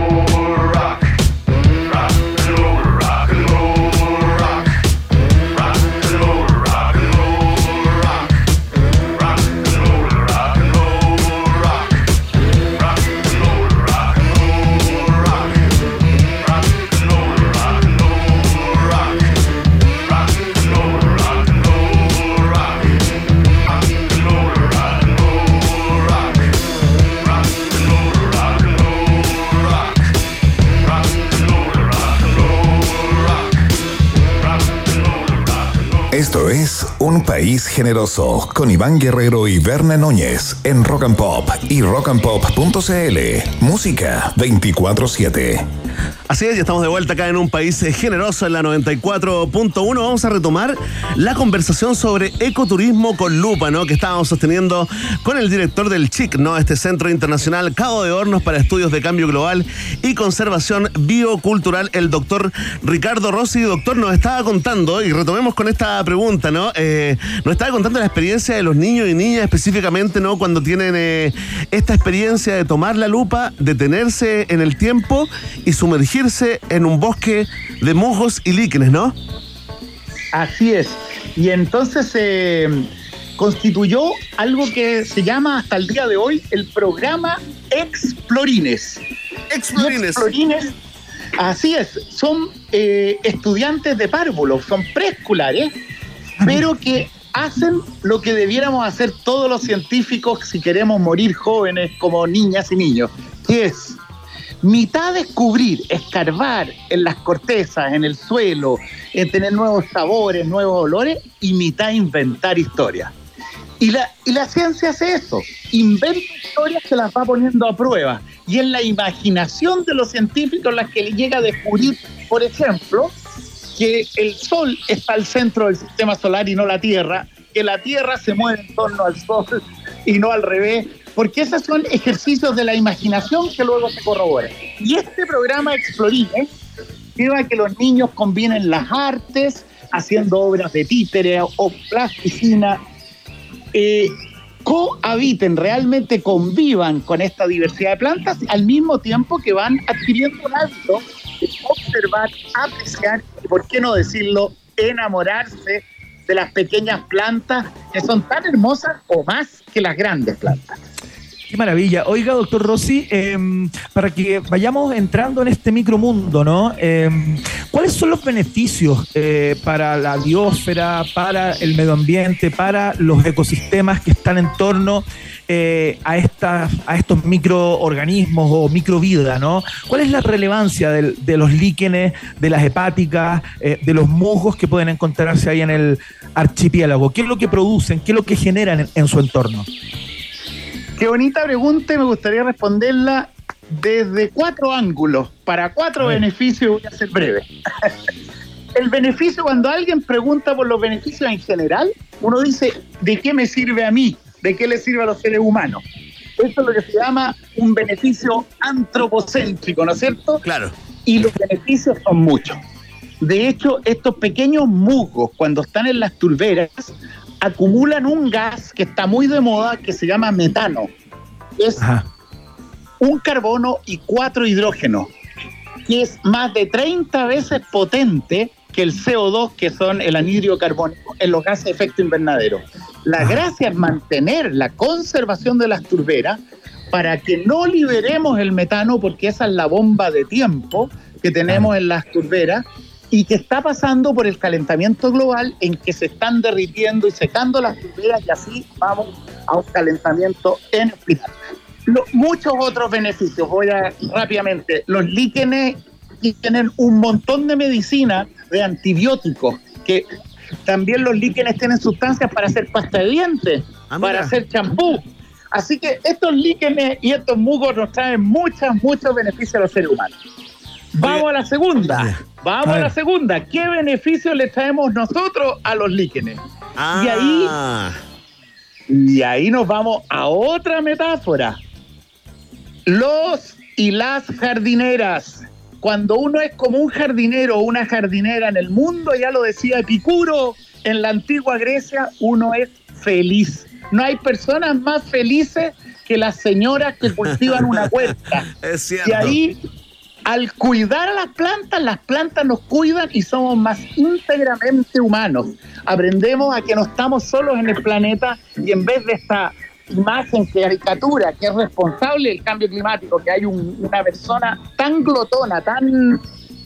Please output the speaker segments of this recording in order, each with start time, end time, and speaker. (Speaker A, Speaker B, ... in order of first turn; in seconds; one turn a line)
Speaker A: 36.1-45.6
Speaker B: 46.3-79.1
Speaker C: 80.3-89.0
Speaker B: 89.5-90.3
Speaker C: 89.8-90.7
Speaker C: 91.4-95.7
Speaker C: 96.4-104.0
Speaker C: 104.6-113.1
Speaker C: 113.8-123.1
Speaker C: 123.7-129.5
Speaker C: 130.1-136.5
Speaker C: 137.2-142.8
Speaker C: 143.7-160.8
Speaker D: 161.5-189.7
Speaker C: 191.0-197.9
Speaker C: 198.7-205.8
Speaker C: 206.4-210.4
Speaker B: 210.4-210.7
Speaker C: 211.0-212.6
Speaker C: 213.2-220.9
Speaker C: 221.6-221.8
Speaker D: 221.8-222.1
Speaker C: 223.0-225.1
Speaker C: 225.9-236.4
Speaker C: 236.9-251.3
Speaker C: 251.9-260.1
Speaker C: 260.6-270.1
Speaker B: 263.9-264.3
Speaker C: 270.9-276.4
Speaker B: 271.8-272.2
Speaker D: 272.6-272.9
Speaker B: 276.8-278.0
Speaker C: 276.9-277.5
Speaker C: 278.9-281.6
Speaker C: 282.9-298.4
Speaker B: 297.5-299.4
Speaker C: 299.0-299.6
Speaker C: 300.2-316.2